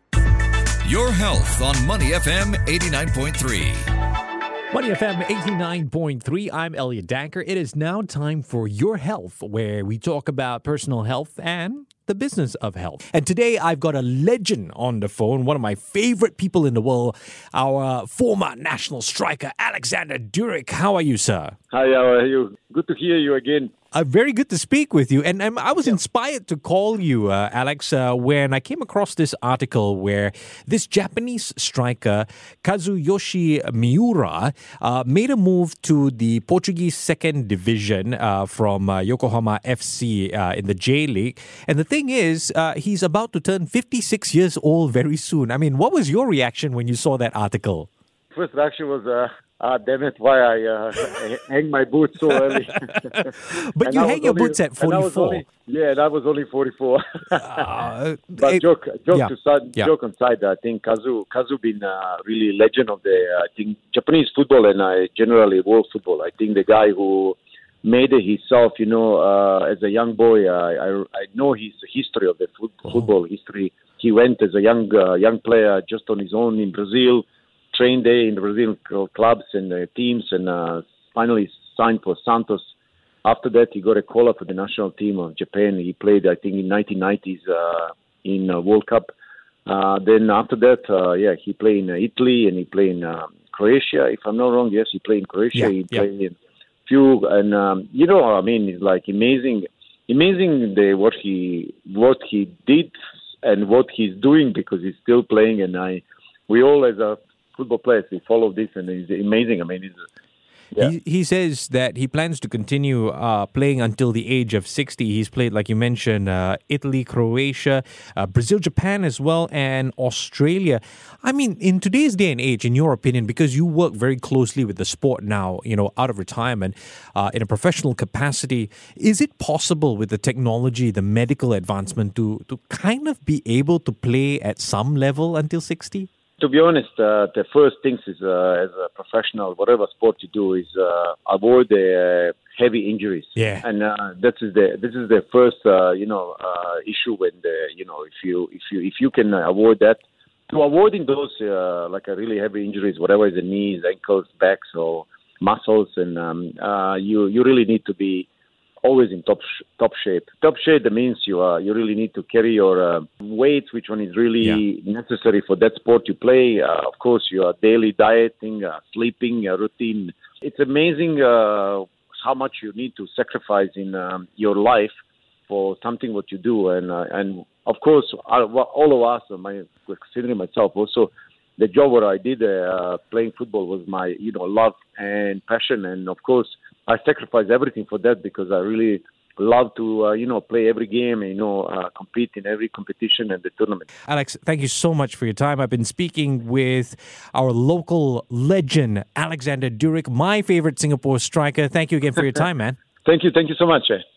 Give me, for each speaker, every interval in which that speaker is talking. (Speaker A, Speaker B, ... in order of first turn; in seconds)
Speaker A: 0.8-3.9
Speaker B: 4.7-21.6, 23.9-47.9, 52.8-55.4, 57.3-59.9, 95.5-96.0, 110.8-136.1, 143.3-143.6, 194.1-202.8
Speaker C: 21.7-23.7, 48.3-57.8, 58.4-82.6, 83.2-89.1, 89.7-96.3, 96.8-110.0, 136.4-158.3, 158.8-174.9, 175.5-193.9, 203.0-204.0